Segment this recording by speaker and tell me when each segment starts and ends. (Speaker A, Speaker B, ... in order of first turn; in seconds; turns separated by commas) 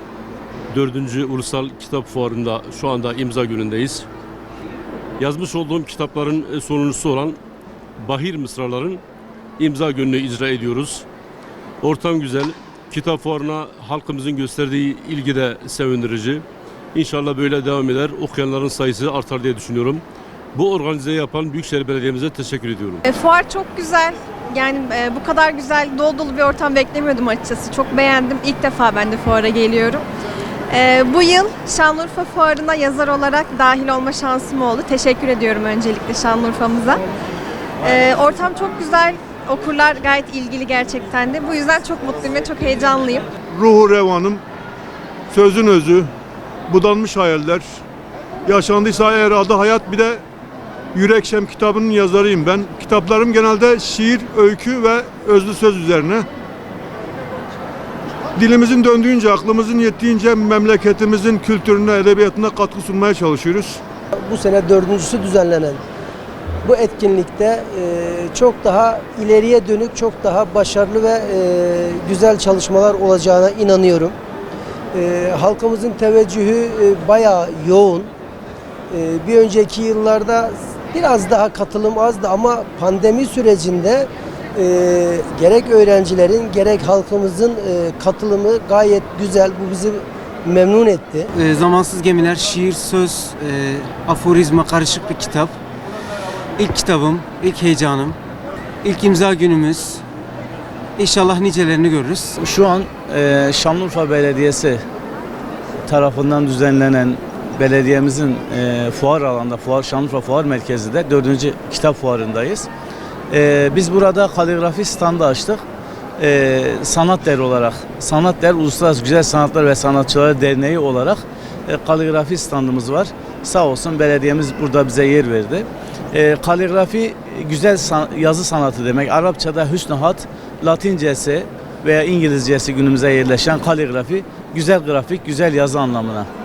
Speaker A: 0.7-4.1, Speaker A: 5.2-7.4, Speaker A: 8.0-9.0, Speaker A: 9.6-11.0, Speaker A: 11.8-20.0, Speaker A: 20.5-23.0, Speaker B: 23.1-30.1, Speaker B: 30.7-37.0, Speaker B: 37.8-43.3, Speaker C: 43.5-44.4, Speaker C: 45.3-46.1, Speaker C: 46.7-47.8, Speaker C: 48.5-50.2, Speaker C: 50.9-56.3, Speaker C: 58.4-63.8, Speaker D: 64.2-65.8, Speaker D: 66.6-74.2, Speaker D: 74.9-78.1, Speaker D: 78.9-91.3, Speaker E: 91.3-95.5, Speaker E: 96.6-98.2, Speaker E: 98.8-100.0, Speaker E: 101.0-102.3, Speaker F: 102.4-104.8, Speaker F: 105.9-112.7, Speaker F: 113.3-115.6, Speaker F: 116.2-136.3